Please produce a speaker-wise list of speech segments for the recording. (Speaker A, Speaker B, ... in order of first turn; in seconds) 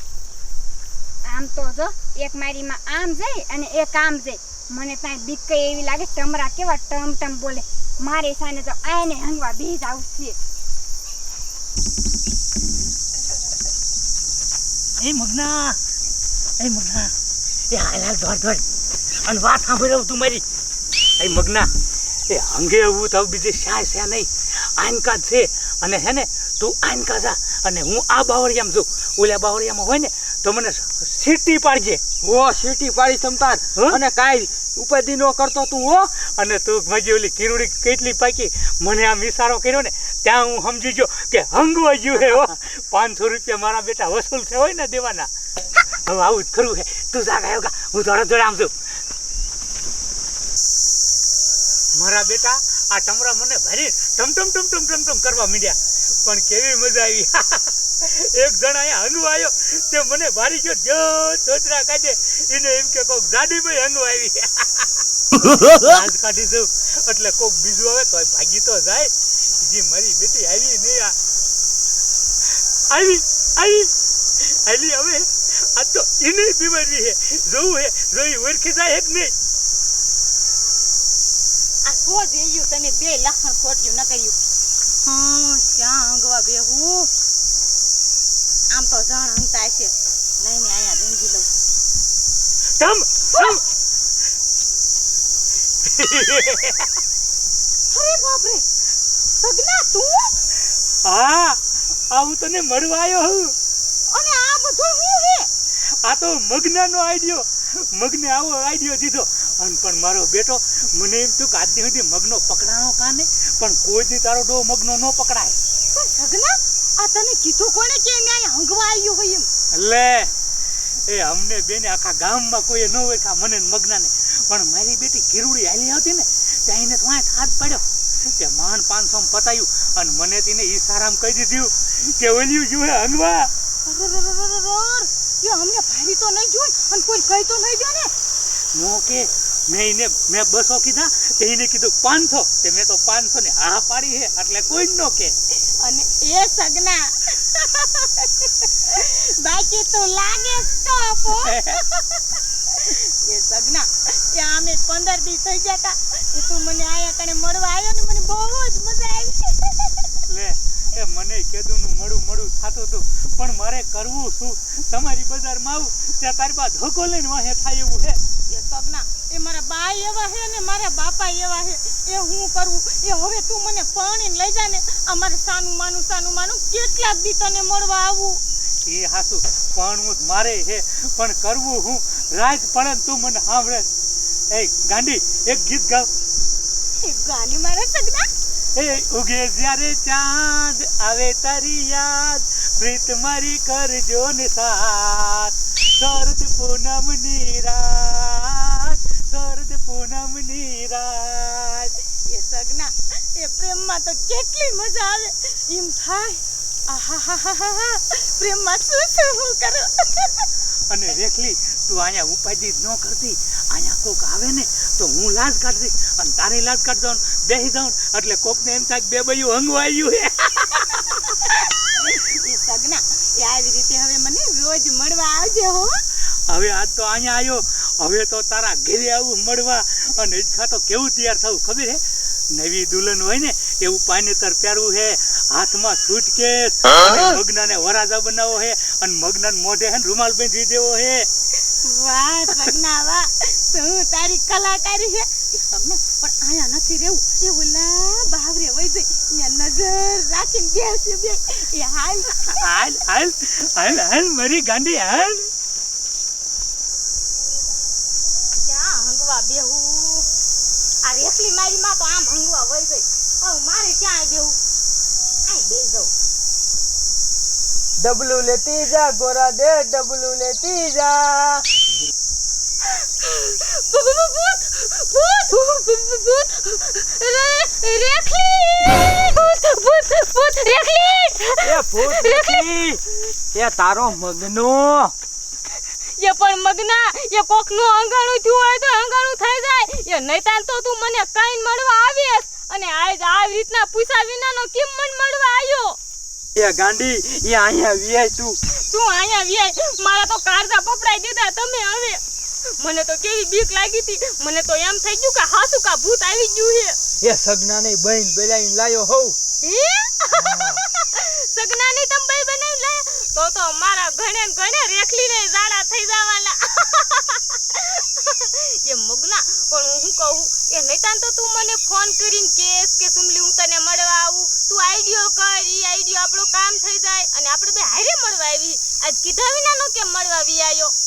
Speaker A: 1.3-10.4
Speaker B: 15.0-15.8, 16.6-17.1, 17.7-18.6, 19.2-20.4, 21.2-21.7, 22.3-32.0, 36.4-45.3, 46.1-48.7, 52.0-65.0, 65.5-71.1, 72.9-73.9, 74.4-79.3, 92.8-93.6, 95.9-96.9, 101.0-101.6, 102.1-103.5, 106.0-115.5, 119.7-120.3, 121.1-133.5, 138.8-145.3, 151.4-151.8, 160.3-168.2, 178.8-183.9, 184.5-186.1, 188.8-201.9, 210.9-221.2, 226.5-232.0, 232.5-241.3, 252.6-255.5
Speaker C: 32.2-36.1, 268.0-271.6, 281.6-283.0, 283.5-285.1, 296.6-298.6, 307.2-309.4, 310.3-310.8
Speaker D: 81.8-84.3, 85.0-87.1, 88.7-91.5, 97.9-98.6, 99.4-100.3, 104.1-105.5, 116.0-119.5, 133.9-138.1, 145.8-152.0, 152.8-159.9, 168.5-178.4, 187.0-188.3, 202.3-210.5, 221.8-226.0, 241.8-252.6
Speaker E: 258.7-260.3, 261.0-264.6, 265.5-266.1, 273.2-282.7, 286.2-296.0, 298.9-302.2, 302.8-307.0, 309.6-330.9